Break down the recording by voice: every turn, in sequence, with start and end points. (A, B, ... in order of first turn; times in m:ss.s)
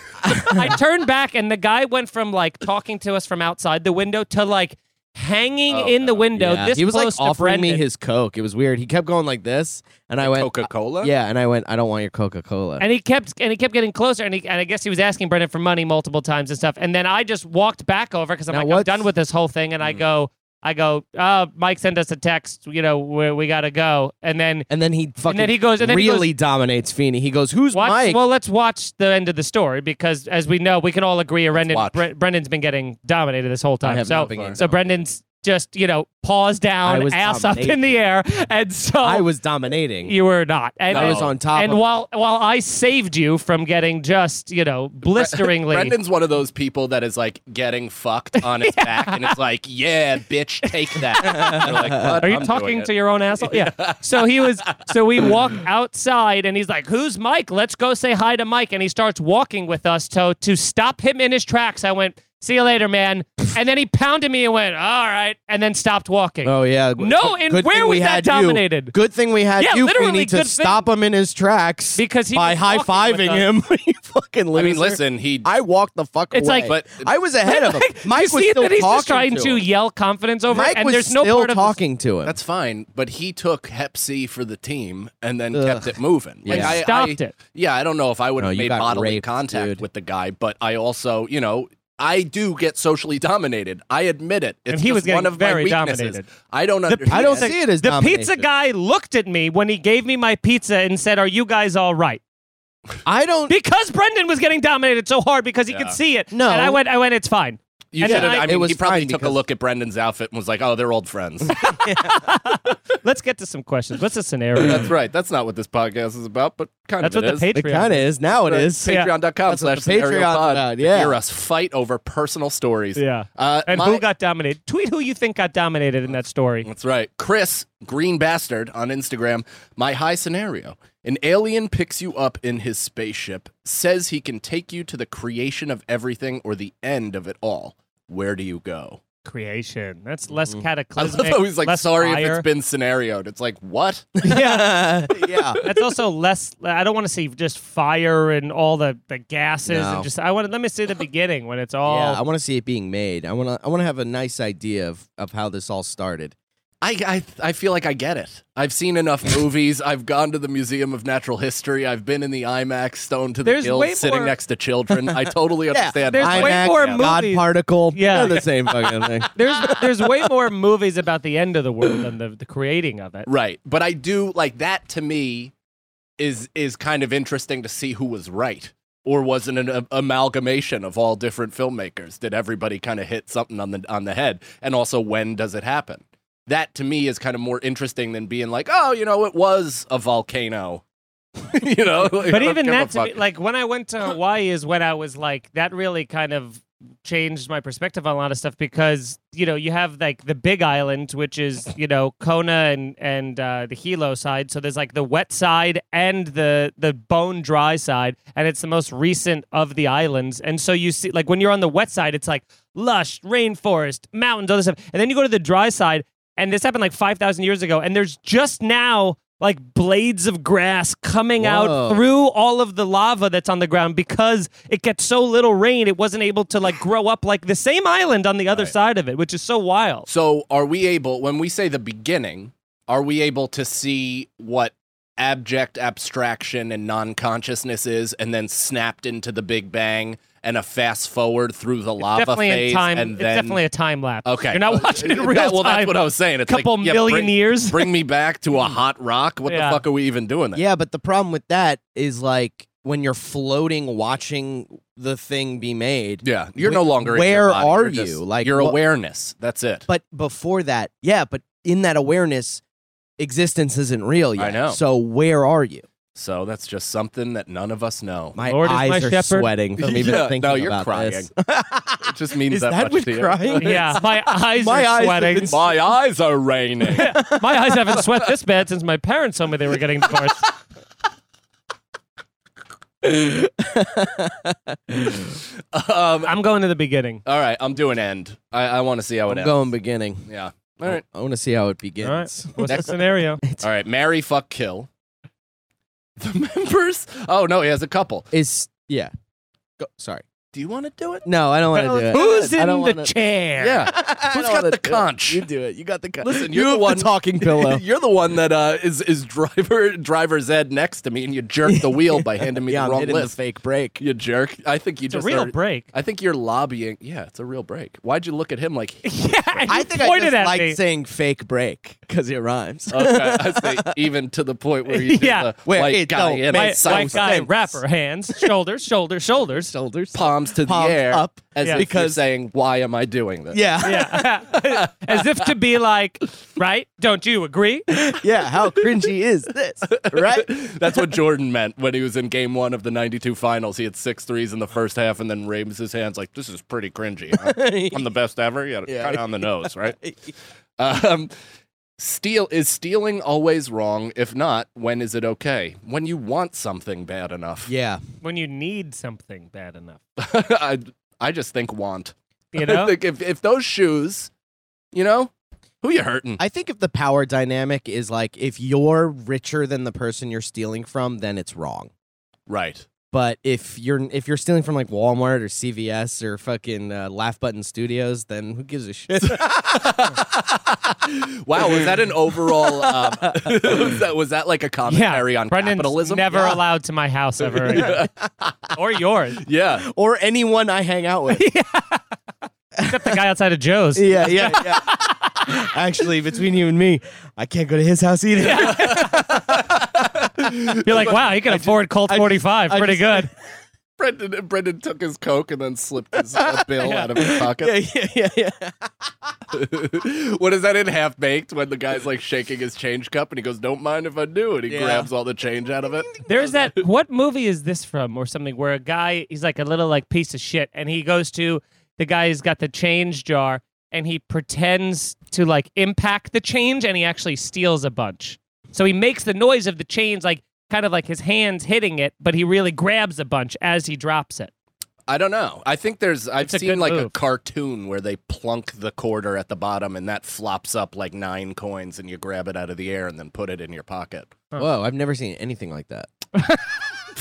0:00.2-0:00.8 A
0:00.3-0:07.8 B
0:05.7-0:06.3 C
0:06.3-0:12.8 A
0:10.2-0:11.1 C
0:12.8-0:24.7 B
0:18.5-0:19.0 A
0:24.7-0:28.2 A
0:25.2-0:26.3 B
0:27.7-0:39.3 B
0:31.5-0:32.0 C
0:33.8-0:34.8 A
0:34.1-0:34.8 C
0:36.8-0:37.8 A
0:39.0-0:40.2 A
0:40.0-0:45.9 B
0:40.9-0:41.3 C
0:40.9-0:41.8 A
0:45.1-0:55.3 C
0:48.4-0:49.3 B
0:50.8-1:08.9 B
0:51.2-0:52.4 A
1:06.4-1:19.6 A
1:09.6-1:10.8 B
1:12.0-1:13.4 B
1:14.5-1:15.5 C
1:16.3-1:16.7 B
1:16.6-1:17.1 C
1:17.4-1:21.8 B
1:20.5-1:22.3 A
1:22.2-1:37.5 C
1:25.5-1:26.8 A
1:26.5-1:27.3 B
1:28.4-1:29.8 A
1:34.7-1:36.3 B
1:36.9-1:42.2 B
1:37.1-1:38.4 A
1:43.0-1:43.5 A
1:43.5-1:48.6 B
1:45.7-1:46.0 C
1:46.3-1:46.8 A
1:47.9-1:51.6 C
1:48.0-1:49.4 A
1:51.4-1:52.2 A
1:51.5-1:54.9 B
1:54.6-1:57.5 C
1:57.0-1:58.0 B
1:57.5-2:01.2 A
1:58.4-2:04.0 C
2:03.0-2:06.7 B
2:06.6-2:19.0 C
2:19.2-2:22.4 B
2:21.0-2:24.2 C
2:24.2-2:25.6 A
2:24.2-2:25.0 B
2:25.1-2:26.0 C
2:25.6-2:32.2 B
2:29.7-2:30.1 A
2:31.8-2:36.3 A
2:36.8-2:47.2 C
2:43.4-2:44.3 B
2:45.1-2:50.2 A
2:46.0-2:53.3 B
2:53.3-2:55.5 C
2:56.2-3:10.8 C
3:11.4-3:13.2 C
3:12.2-3:50.1 B
3:41.4-3:42.0 A
3:50.1-4:03.6 C
4:02.0-4:07.9 B
4:04.2-4:10.6 C
4:09.5-4:09.8 B
4:10.5-4:18.8 A
4:16.2-4:19.9 C
4:19.9-4:22.6 A
4:23.2-4:25.8 A
4:24.4-4:24.8 C
4:26.1-4:28.4 C
4:28.3-4:35.8 A
4:28.4-4:29.5 B
4:29.8-4:31.3 C
4:32.0-4:33.9 C
4:33.6-4:35.6 B
4:35.4-4:37.2 C
4:36.9-4:40.5 B
4:36.9-4:38.0 A
4:43.0-4:45.4 A
4:45.7-4:46.4 C
4:46.2-4:47.2 B
4:47.2-4:49.6 C
4:49.3-4:50.3 A
4:50.3-4:51.0 C
4:50.8-4:52.9 A
4:52.0-4:53.4 B
4:52.6-4:54.9 C
4:56.2-4:58.3 C
4:58.3-4:59.1 A
4:59.8-5:00.2 A
5:00.5-5:02.6 C
5:01.2-5:03.1 A
5:01.8-5:03.9 B
5:03.6-5:05.4 C
5:03.8-5:07.8 A
5:06.2-5:13.4 C
5:11.6-5:14.0 A
5:14.0-5:19.7 C
5:15.1-5:15.9 B
5:19.0-5:20.8 B
5:19.7-5:24.0 A
5:22.9-5:27.5 C
5:24.9-5:25.5 B
5:25.6-5:27.8 A
5:26.5-5:29.7 B
5:29.5-5:32.2 A
5:30.1-5:35.3 C
5:33.5-5:34.2 A
5:33.8-5:38.0 B
5:38.0-5:41.2 A
5:39.9-5:50.0 C
5:47.3-5:48.1 A
5:48.8-5:50.3 A
5:50.8-5:51.3 C
5:52.0-5:57.7 C
5:57.6-5:58.0 A
5:58.2-6:00.0 B
6:00.2-6:04.3 C
6:02.5-6:02.9 B
6:04.9-6:06.4 C
6:06.4-6:11.9 A
6:12.5-6:12.9 C
6:13.1-6:20.1 A
6:19.1-6:26.5 C
6:21.6-6:21.9 A
6:22.5-6:24.0 A
6:24.9-6:28.1 B
6:26.3-6:26.6 A
6:27.4-6:28.5 C
6:27.7-6:28.2 A
6:28.7-6:29.4 B
6:29.4-6:29.9 C
6:29.8-6:31.5 A
6:31.3-6:32.0 B
6:32.8-6:33.2 A
6:32.8-6:35.3 B
6:33.9-6:39.6 A
6:38.4-6:39.4 B
6:38.5-6:41.6 C
6:40.8-6:43.3 B
6:41.0-6:43.3 A
6:44.0-6:47.7 C
6:46.3-6:49.3 A
6:46.8-6:47.1 B
6:49.5-6:56.7 C
6:54.7-6:55.1 A
6:56.2-7:14.5 B
7:15.1-7:24.4 C
7:16.4-7:17.1 B
7:24.6-7:26.1 A
7:26.4-7:26.8 B